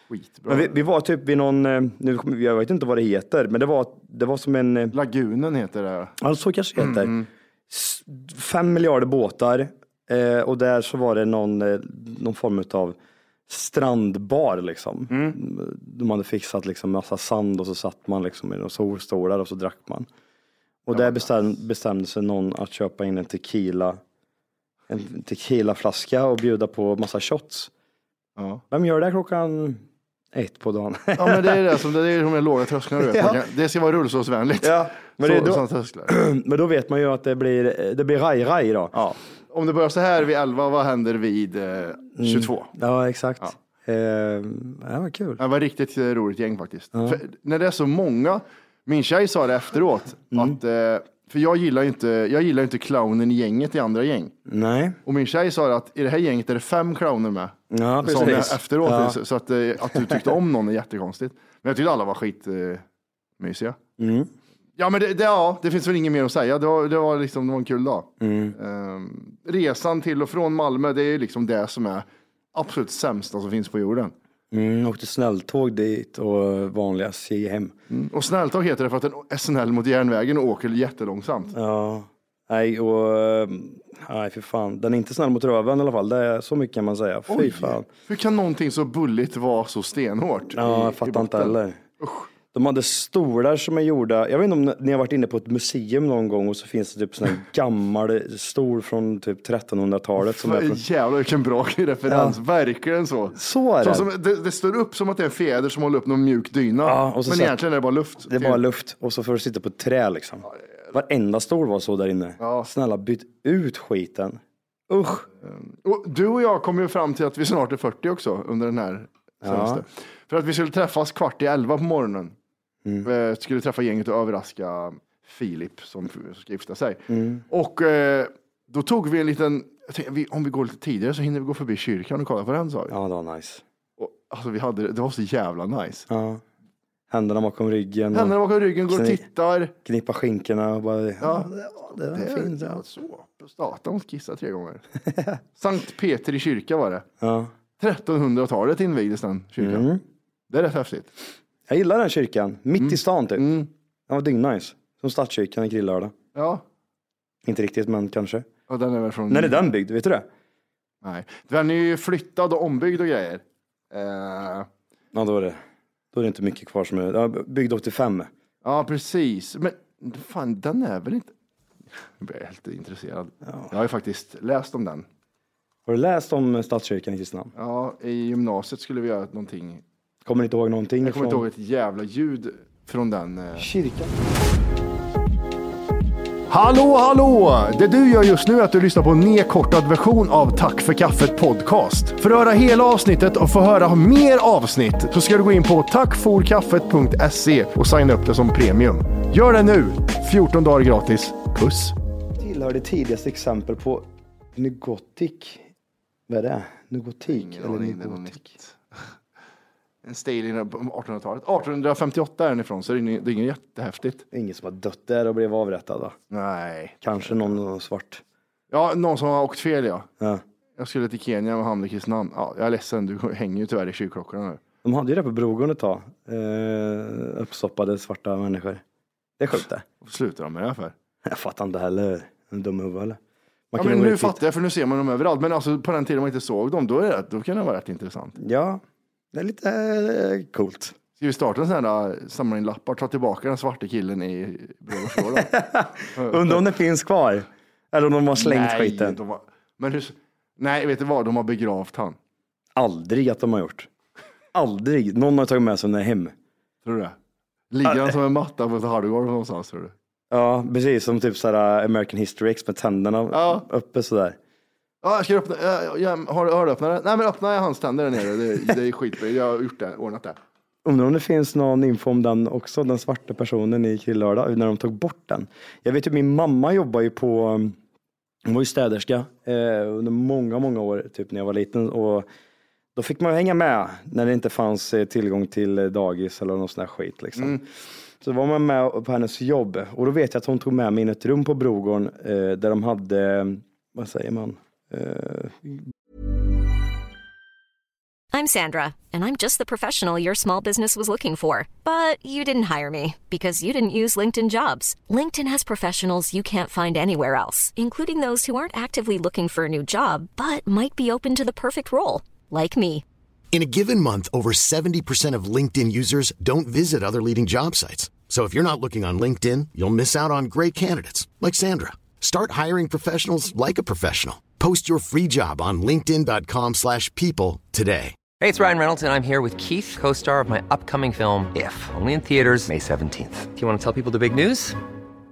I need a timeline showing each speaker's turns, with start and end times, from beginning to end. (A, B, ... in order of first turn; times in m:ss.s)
0:00.1-0:00.8 A
0:00.5-0:05.0 B
0:04.9-0:06.1 A
0:06.2-0:07.2 B
0:06.8-0:07.3 A
0:07.7-0:13.0 B
0:13.5-0:20.1 B
0:15.1-0:15.4 A
0:20.9-0:24.0 B
0:20.9-0:21.3 A
0:24.9-0:27.7 B
0:28.4-0:28.6 A
0:28.7-0:29.8 B
0:30.3-0:31.8 B
0:31.2-0:36.1 A
0:33.0-0:33.4 B
0:34.6-0:39.1 B
0:39.0-0:42.7 A
0:42.2-0:45.4 B
0:45.4-0:54.3 A
0:54.5-0:55.0 B
0:55.0-1:02.8 A
0:57.7-0:59.2 B
0:59.9-1:00.3 B
1:03.4-1:03.8 A
1:04.0-1:04.3 B
1:04.8-1:14.1 A
1:08.2-1:08.6 B
1:14.5-1:17.7 B
1:17.9-1:21.6 A
1:21.5-1:27.9 B
1:27.3-1:32.3 A
1:30.5-1:31.8 B
1:32.5-1:40.8 B
1:40.2-1:48.6 A
1:42.1-1:42.4 B
1:43.3-1:44.1 B
1:46.8-1:47.6 B
1:48.3-1:55.3 B
1:52.4-1:52.7 A
1:55.4-2:02.4 A
1:59.4-1:59.8 B
2:03.0-2:12.9 A
2:07.1-2:07.4 B
2:12.9-2:13.6 B
2:14.0-2:16.1 A
2:16.1-2:16.4 B
2:17.1-2:18.4 B
2:18.1-2:19.7 A
2:18.9-2:19.2 B
2:19.8-2:22.8 B
2:21.2-2:21.5 A
2:22.2-2:24.8 A
2:25.1-2:25.4 B
2:25.6-2:27.1 A
2:27.2-2:27.5 B
2:27.8-2:29.9 A
2:29.6-2:30.0 B
2:30.5-2:31.1 A
2:31.7-2:33.5 B
2:32.8-2:33.7 A
2:34.1-2:36.1 B
2:36.4-2:36.6 A
2:37.4-2:38.5 B
2:38.7-2:39.6 A
2:39.3-2:40.3 B
2:41.0-2:44.7 A
2:45.1-2:45.6 B
2:46.1-2:48.3 B
2:48.6-2:51.3 A
2:52.2-2:55.1 A
2:55.9-2:57.5 B
2:57.6-2:59.8 A
3:00.2-3:01.4 B
3:01.0-3:03.7 A
3:03.6-3:04.1 B
3:06.5-3:22.0 A
3:22.4-3:25.7 B
3:26.3-3:28.5 B
3:27.3-3:28.8 A
3:30.0-3:34.2 A
3:34.3-3:36.2 B
3:36.3-3:37.5 A
3:37.0-3:38.2 B
3:38.7-3:40.1 A
3:40.8-3:44.6 A
3:44.8-3:48.8 B
3:49.4-3:49.8 B
3:50.0-3:50.9 A
3:51.2-3:53.2 B
3:53.7-3:54.4 B
3:53.8-3:58.4 A
3:58.4-3:58.8 B
3:59.3-4:01.0 B
4:01.2-4:05.5 A
4:05.0-4:09.2 B
4:06.2-4:06.6 A
4:08.4-4:12.2 A
4:12.8-4:13.9 B
4:14.5-4:16.4 B
4:16.8-4:17.2 A
4:17.7-4:19.9 A
4:17.9-4:18.1 B
4:20.3-4:24.4 B
4:23.3-4:23.6 A
4:25.0-4:30.4 A
4:30.8-4:37.8 B
4:38.4-4:42.3 B
4:43.0-4:47.6 B
4:48.2-4:55.8 B
4:58.3-5:13.0 C
5:13.5-5:28.2 D
5:28.4-5:34.8 E